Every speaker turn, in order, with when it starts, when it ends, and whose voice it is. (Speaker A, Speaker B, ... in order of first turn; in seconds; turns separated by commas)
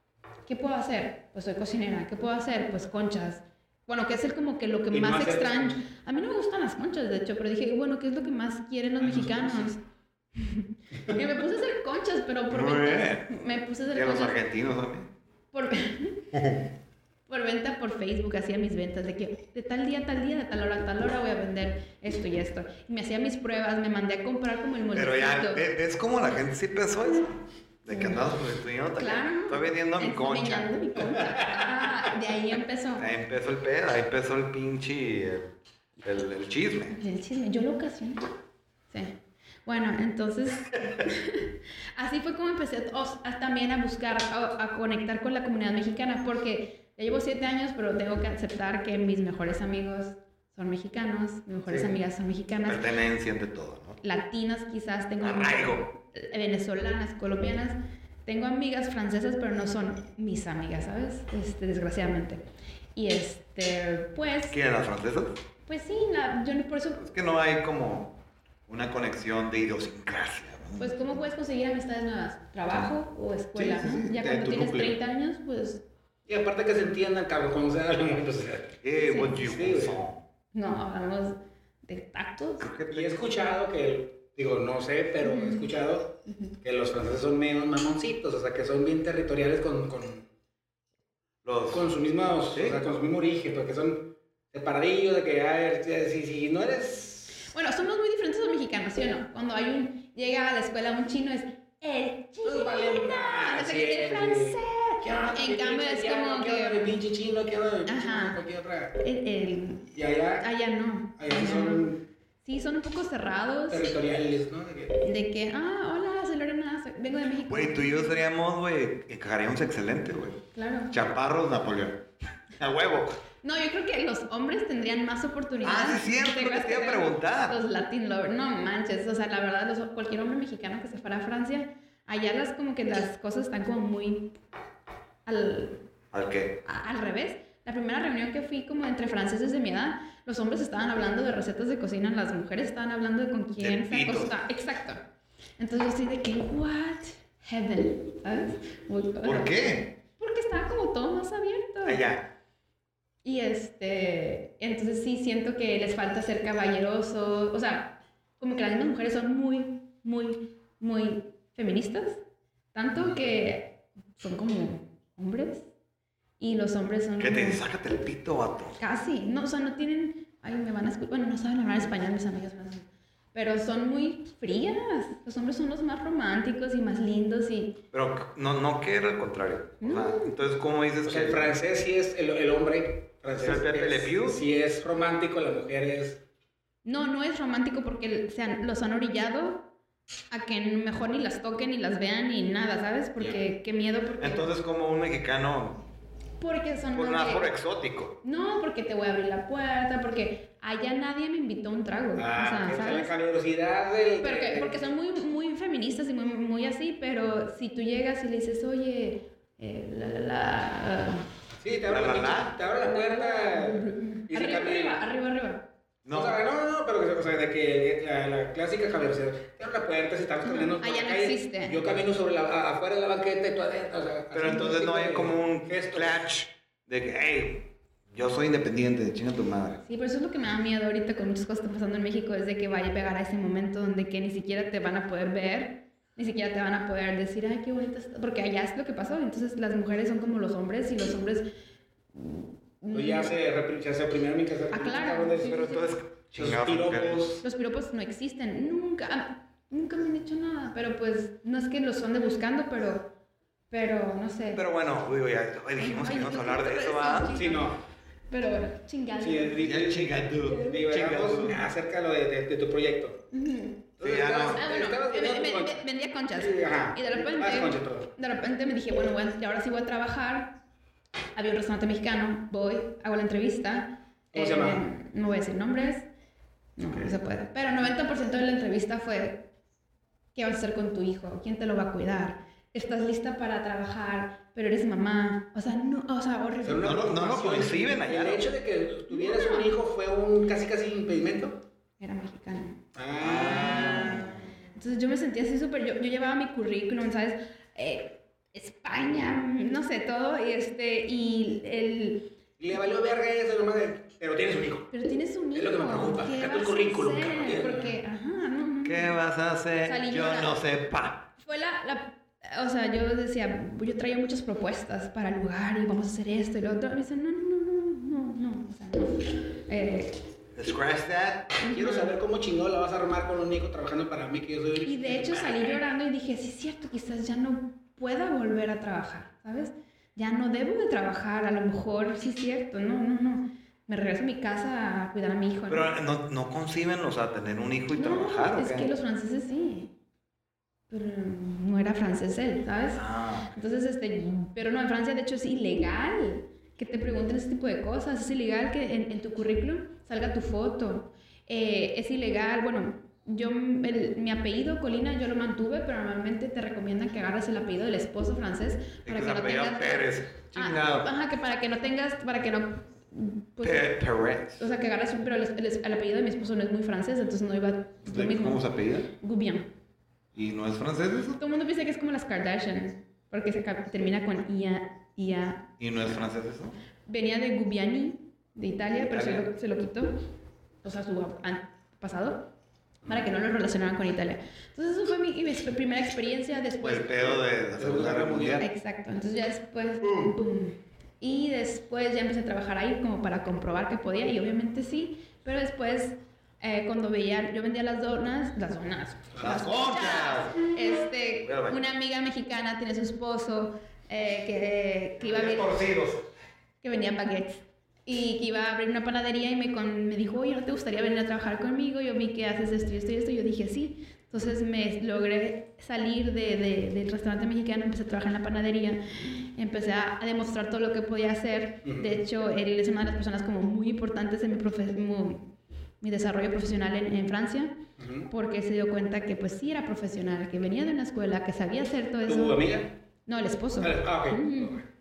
Speaker A: 0.5-9.8, Speaker B: 4.9-5.8, Speaker B: 9.0-9.7, Speaker A: 10.4-14.4, Speaker C: 12.5-13.4, Speaker C: 13.9-15.1, Speaker A: 15.5-16.3, Speaker C: 16.3-16.7, Speaker A: 17.3-25.7, Speaker C: 24.9-27.3, Speaker C: 27.9-31.0, Speaker A: 27.9-28.2, Speaker A: 29.0-33.1, Speaker C: 33.0-35.5, Speaker C: 36.0-37.0, Speaker A: 36.9-38.2, Speaker A: 38.9-39.1, Speaker A: 39.7-52.9, Speaker C: 51.7-51.9, Speaker C: 52.7-54.0, Speaker A: 54.0-62.4, Speaker C: 55.2-55.9, Speaker A: 63.0-64.6, Speaker C: 64.5-65.3, Speaker A: 65.7-67.0, Speaker C: 67.0-68.1, Speaker C: 68.7-71.3, Speaker A: 70.8-75.8, Speaker C: 73.5-74.9, Speaker B: 76.3-78.8, Speaker C: 78.8-80.2, Speaker A: 78.9-79.4, Speaker B: 79.4-80.0, Speaker A: 80.5-82.7, Speaker C: 82.6-83.2, Speaker B: 82.9-90.3, Speaker A: 85.2-85.7, Speaker A: 86.3-86.5, Speaker C: 91.4-91.9, Speaker B: 91.7-97.5, Speaker C: 92.5-92.8, Speaker A: 97.4-107.0, Speaker B: 102.5-109.0, Speaker A: 107.9-108.4, Speaker A: 109.0-109.9, Speaker B: 109.9-110.5, Speaker A: 110.4-111.9, Speaker B: 111.2-112.0, Speaker A: 112.5-113.9, Speaker B: 113.7-115.0, Speaker A: 115.0-118.1, Speaker C: 117.5-122.0, Speaker A: 120.5-120.9, Speaker C: 122.6-123.2, Speaker A: 123.4-134.3, Speaker C: 125.6-127.6, Speaker A: 135.3-135.8, Speaker C: 136.1-136.6, Speaker A: 136.6-145.0, Speaker C: 143.6-144.3, Speaker A: 145.6-152.0, Speaker C: 149.2-149.9, Speaker C: 151.8-152.3, Speaker A: 153.2-162.2, Speaker A: 162.7-165.7, Speaker A: 166.4-167.6, Speaker C: 167.2-168.8, Speaker A: 168.8-177.8, Speaker C: 177.9-181.5, Speaker A: 179.8-180.3, Speaker B: 181.1-186.2, Speaker C: 183.4-184.4, Speaker A: 186.8-189.7, Speaker A: 190.3-194.5, Speaker C: 194.2-195.8, Speaker A: 196.4-197.5, Speaker C: 196.9-198.1, Speaker A: 198.2-203.1, Speaker B: 202.2-204.8, Speaker A: 204.2-211.3, Speaker B: 211.6-215.0, Speaker C: 211.9-212.5, Speaker A: 212.8-215.6, Speaker C: 216.1-216.4, Speaker B: 216.1-226.2, Speaker A: 220.4-221.8, Speaker C: 224.3-229.8, Speaker A: 229.8-241.5, Speaker A: 242.1-243.3, Speaker B: 242.9-245.6, Speaker A: 244.7-245.9, Speaker C: 245.4-247.2, Speaker B: 246.3-247.4, Speaker A: 247.4-253.1, Speaker A: 253.7-254.7, Speaker C: 254.6-257.3, Speaker A: 255.8-257.7, Speaker B: 257.3-257.8, Speaker A: 258.3-259.6, Speaker B: 259.2-263.2, Speaker C: 259.6-261.6, Speaker A: 260.4-260.8, Speaker A: 263.3-263.9, Speaker B: 264.0-265.8, Speaker C: 264.0-264.6, Speaker A: 264.5-270.6, Speaker B: 266.4-268.1, Speaker A: 271.4-276.1, Speaker B: 274.3-274.9, Speaker A: 276.8-279.4, Speaker A: 280.4-287.0, Speaker B: 286.6-291.6, Speaker C: 286.8-288.5, Speaker A: 289.1-289.7, Speaker A: 292.0-292.8, Speaker B: 292.9-294.3, Speaker C: 293.2-294.5, Speaker A: 293.3-302.3, Speaker B: 302.6-304.9, Speaker A: 304.9-309.2, Speaker B: 305.5-308.0, Speaker C: 308.9-311.2, Speaker A: 309.8-310.6, Speaker A: 311.4-320.2, Speaker C: 320.6-321.5, Speaker A: 321.6-322.1, Speaker B: 321.6-325.8, Speaker A: 324.9-335.9, Speaker C: 335.7-338.9, Speaker A: 337.9-339.9, Speaker A: 340.9-364.0, Speaker C: 342.9-343.6, Speaker C: 359.1-361.1, Speaker C: 363.6-364.6, Speaker A: 364.6-369.7, Speaker C: 368.1-369.1, Speaker C: 370.3-371.4, Speaker A: 371.4-375.7, Speaker C: 375.8-376.8, Speaker A: 377.1-380.1, Speaker C: 379.0-379.5, Speaker A: 380.8-382.5, Speaker A: 383.1-387.1, Speaker C: 386.8-388.7, Speaker B: 387.2-388.7, Speaker A: 388.6-405.8, Speaker C: 390.0-390.4, Speaker C: 399.4-400.7, Speaker C: 401.4-401.8, Speaker C: 405.2-406.2, Speaker A: 406.8-425.5, Speaker B: 421.9-422.2, Speaker A: 426.0-427.8, Speaker B: 428.0-428.3, Speaker A: 428.3-432.6, Speaker B: 432.3-432.9, Speaker A: 433.3-434.8, Speaker B: 433.8-434.9